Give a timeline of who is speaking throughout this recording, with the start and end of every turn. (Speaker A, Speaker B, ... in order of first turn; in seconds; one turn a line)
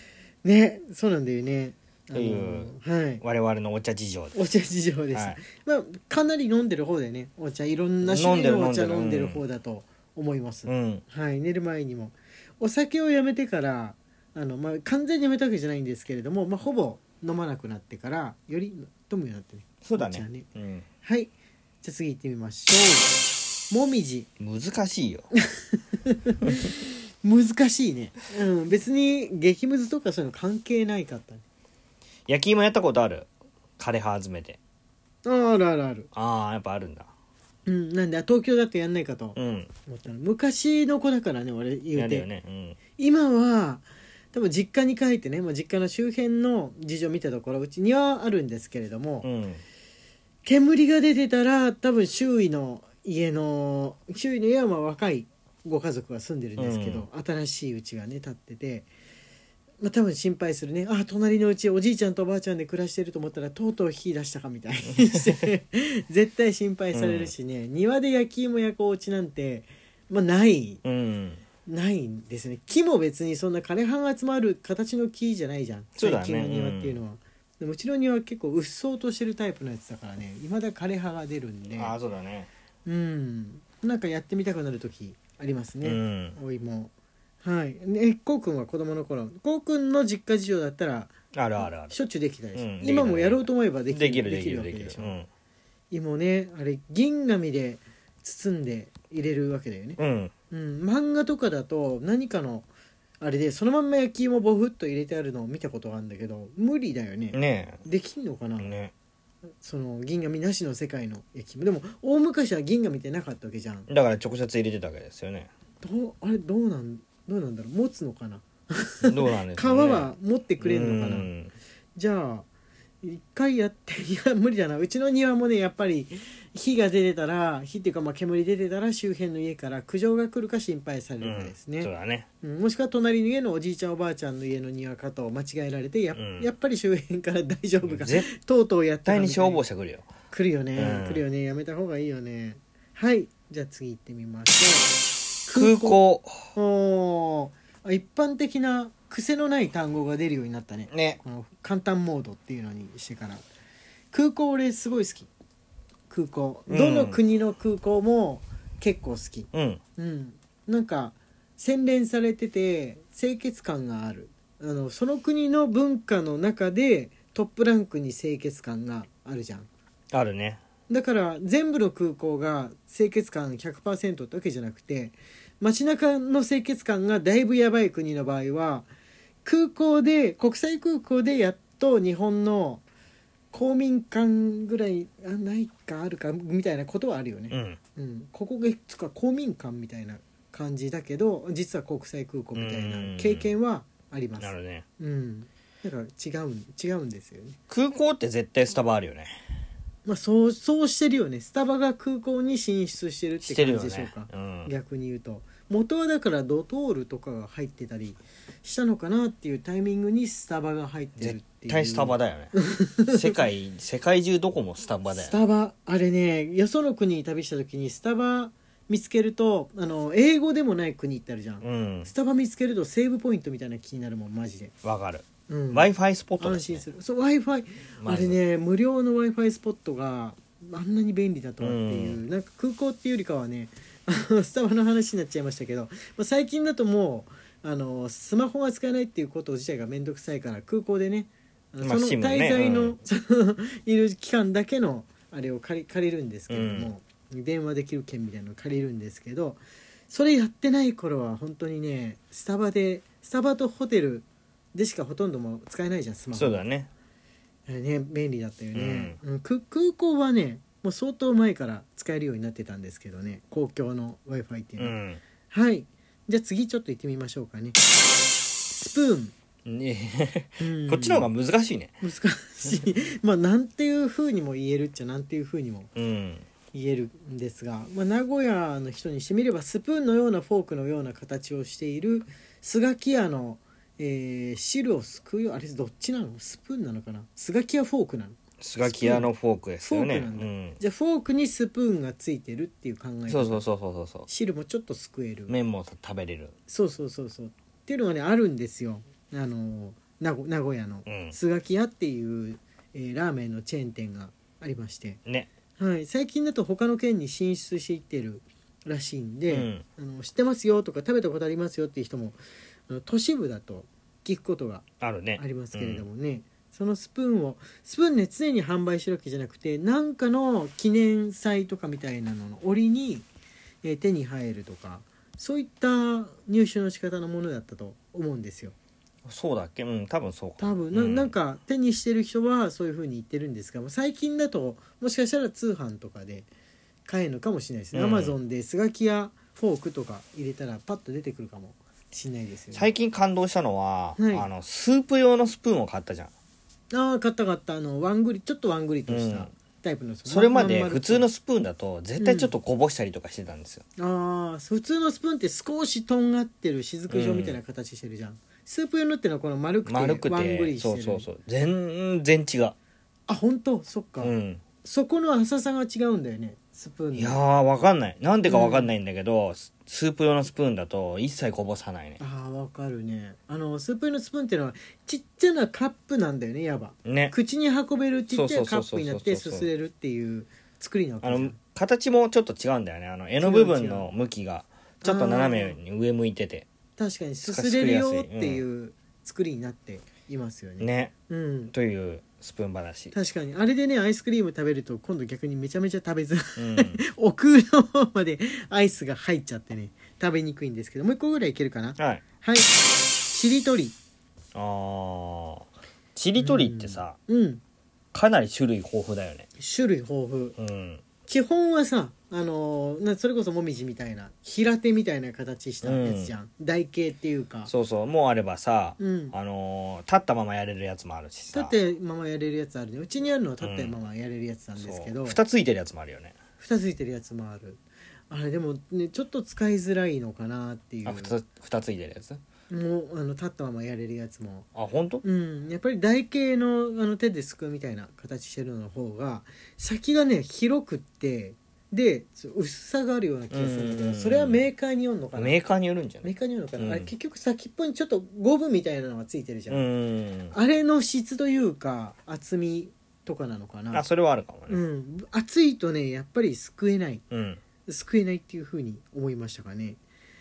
Speaker A: 0.4-3.2
Speaker B: 2.1-4.4
Speaker A: 4.3-20.4
Speaker B: 5.1-5.4
Speaker B: 8.0-9.4
Speaker B: 10.7-11.0
Speaker B: 19.8-20.8
Speaker A: 21.0-23.1
Speaker A: 23.7-24.3
Speaker B: 24.4-25.3
Speaker A: 25.3-31.4
Speaker B: 32.3-34.6
Speaker A: 35.2-36.1
Speaker B: 36.1-37.1
Speaker A: 37.6-42.3
Speaker B: 39.4-39.7
Speaker B: 41.9-42.8
Speaker A: 43.0-49.3
Speaker B: 49.2-49.6
Speaker A: 50.4-58.9
Speaker B: 56.6-57.0
Speaker A: 59.8-70.8
Speaker B: 66.9-67.3
Speaker B: 70.8-71.4
Speaker A: 71.7-82.0
Speaker B: 76.0-77.0
Speaker B: 81.8-82.5
Speaker A: 82.8-95.2
Speaker B: 85.8-86.4
Speaker B: 91.3-91.9
Speaker B: 92.5-95.3
Speaker A: 95.9-100.0
Speaker B: 100.0-100.3
Speaker A: 100.5-102.7
Speaker A: 103.2-108.7
Speaker B: 107.3-107.8
Speaker B: 108.6-108.9
Speaker A: 109.6-113.9
Speaker B: 113.9-115.5
Speaker A: 115.8-121.3
Speaker B: 119.0-121.5
Speaker A: 122.0-122.5
Speaker A: 123.0-131.9
Speaker B: 131.2-132.3
Speaker A: 132.4-139.6
Speaker B: 136.1-136.5
Speaker B: 137.8-138.3
Speaker B: 139.1-140.1
Speaker A: 140.3-144.9
Speaker B: 140.8-141.2
Speaker A: 145.4-146.0
Speaker B: 145.5-146.5
Speaker A: 146.5-153.4
Speaker B: 150.9-151.2
Speaker A: 154.1-155.3
Speaker A: 156.1-169.7
Speaker B: 156.7-157.2
Speaker B: 159.5-159.8
Speaker B: 170.1-170.6
Speaker A: 170.9-178.9
Speaker A: 179.4-182.8
Speaker A: 183.5-197.6
Speaker B: 187.5-187.8
Speaker B: 192.5-193.5
Speaker B: 194.4-194.8
Speaker B: 197.7-199.3
Speaker A: 200.0-213.3
Speaker B: 203.4-204.7
Speaker B: 211.2-212.5
Speaker B: 213.1-215.3
Speaker A: 215.1-224.7
Speaker B: 221.6-222.1
Speaker B: 224.8-226.8
Speaker A: 225.5-256.6
Speaker B: 228.0-228.4
Speaker B: 231.6-232.2
Speaker B: 241.8-243.0
Speaker B: 246.5-246.9
Speaker B: 256.3-256.9
Speaker A: 257.6-264.9
Speaker B: 258.7-259.2
Speaker B: 264.8-265.2
Speaker A: 265.5-267.8
Speaker A: 268.7-269.3
Speaker B: 269.6-271.9
Speaker A: 270.6-271.3
Speaker A: 272.0-275.9
Speaker B: 275.9-276.4
Speaker A: 276.7-289.3
Speaker B: 288.6-290.8
Speaker A: 289.8-293.6
Speaker B: 293.3-294.3
Speaker A: 294.3-295.6
Speaker B: 295.5-296.5
Speaker A: 296.7-305.2
Speaker B: 301.1-301.4
Speaker A: 305.8-314.9
Speaker B: 309.5-309.8
Speaker B: 315.0-316.1
Speaker A: 315.4-323.3
Speaker A: 323.8-328.7
Speaker B: 329.2-331.3
Speaker A: 330.6-336.5
Speaker A: 337.1-342.9
Speaker B: 337.9-338.4
Speaker B: 342.7-346.3
Speaker A: 344.2-344.5
Speaker A: 346.9-351.3
Speaker B: 349.1-349.5
Speaker B: 350.3-353.8
Speaker A: 352.2-352.5
Speaker A: 354.0-361.3
Speaker B: 357.1-357.6
Speaker B: 359.9-362.7
Speaker A: 363.3-367.4
Speaker B: 364.2-364.6
Speaker B: 367.1-372.2
Speaker A: 368.5-368.9
Speaker A: 372.2-381.6
Speaker B: 377.0-377.3
Speaker B: 378.3-379.7
Speaker B: 381.2-386.6
Speaker A: 383.4-384.1
Speaker A: 385.0-385.8
Speaker A: 387.0-391.7
Speaker B: 387.5-388.6
Speaker B: 390.8-391.1
Speaker B: 391.7-393.1
Speaker A: 393.1-402.7
Speaker B: 396.6-397.0
Speaker B: 402.0-402.2
Speaker A: 403.3-403.9
Speaker B: 404.5-407.2
Speaker A: 406.4-407.6
Speaker B: 408.1-409.4
Speaker A: 409.6-410.6
Speaker B: 410.6-411.0
Speaker A: 411.2-417.7
Speaker B: 415.8-416.3
Speaker B: 417.7-421.7
Speaker A: 419.0-419.4
Speaker A: 421.5-425.4
Speaker B: 423.6-424.0
Speaker B: 424.8-426.3
Speaker A: 426.6-431.4
Speaker B: 431.0-432.4
Speaker A: 432.7-434.7
Speaker B: 434.7-435.2
Speaker A: 435.2-445.6
Speaker B: 443.5-444.6
Speaker B: 445.4-447.1
Speaker A: 446.2-449.8
Speaker B: 449.7-450.5
Speaker A: 450.5-454.1
Speaker B: 453.9-454.8
Speaker A: 454.7-457.2
Speaker B: 457.3-457.6
Speaker A: 457.9-460.0